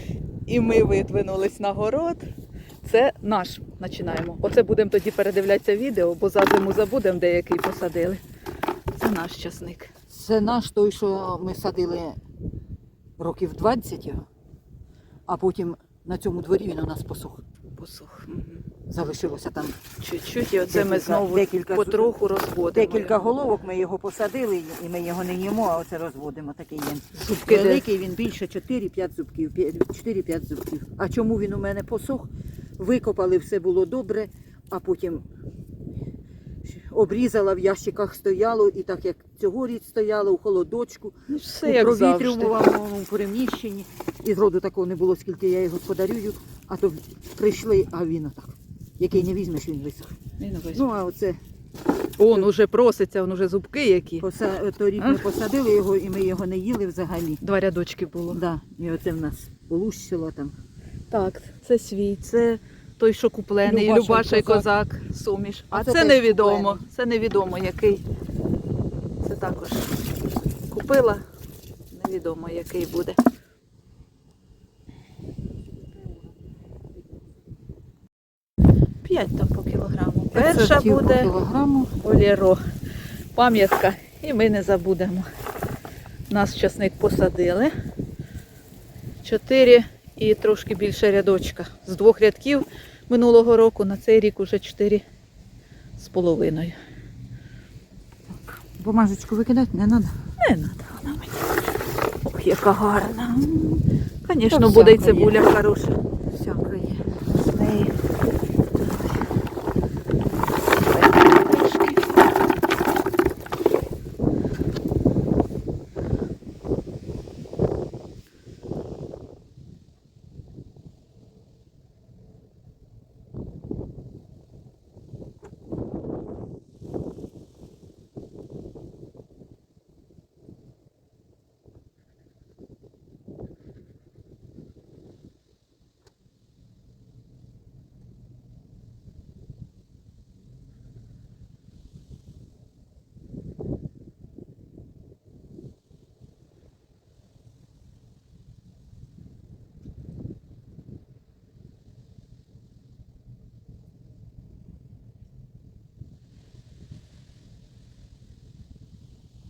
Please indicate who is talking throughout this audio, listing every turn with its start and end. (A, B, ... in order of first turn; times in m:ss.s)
0:00.5-0:02.3 A
0:02.8-0:08.2 A
0:09.0-0:09.9 A
0:10.1-0:12.2 B
0:13.2-0:14.2 B
0:15.3-0:17.4 B
0:17.8-0:18.6 A
0:18.9-0:19.8 B
0:20.0-0:23.2 A
0:20.7-0:22.1 B
0:22.7-0:35.2 B
0:27.2-0:27.8 A
0:36.6-0:50.1 B
0:41.3-0:42.5 A
0:50.4-0:50.8 A
0:50.7-0:51.4 B
0:52.2-0:54.3 A
0:54.2-0:57.4 B
0:55.0-0:55.3 A
0:57.4-0:58.4 A
0:58.3-1:00.6 B
1:01.1-1:08.0 A
1:03.6-1:04.7 B
1:05.7-1:06.8 B
1:09.2-1:09.9 A
1:10.7-1:11.2 A
1:11.9-1:13.2 A
1:19.0-1:21.3 A
1:20.3-1:21.9 B
1:22.0-1:22.6 A
1:23.3-1:25.3 A
1:26.3-1:27.7 A
1:29.2-1:35.0 A
1:36.0-1:36.8 A
1:38.3-1:40.2 B
1:40.4-1:41.5 A
1:42.2-1:46.0 A
1:44.5-1:45.4 B
1:46.3-1:47.0 B
1:47.5-1:47.9 A
1:50.8-1:52.1 A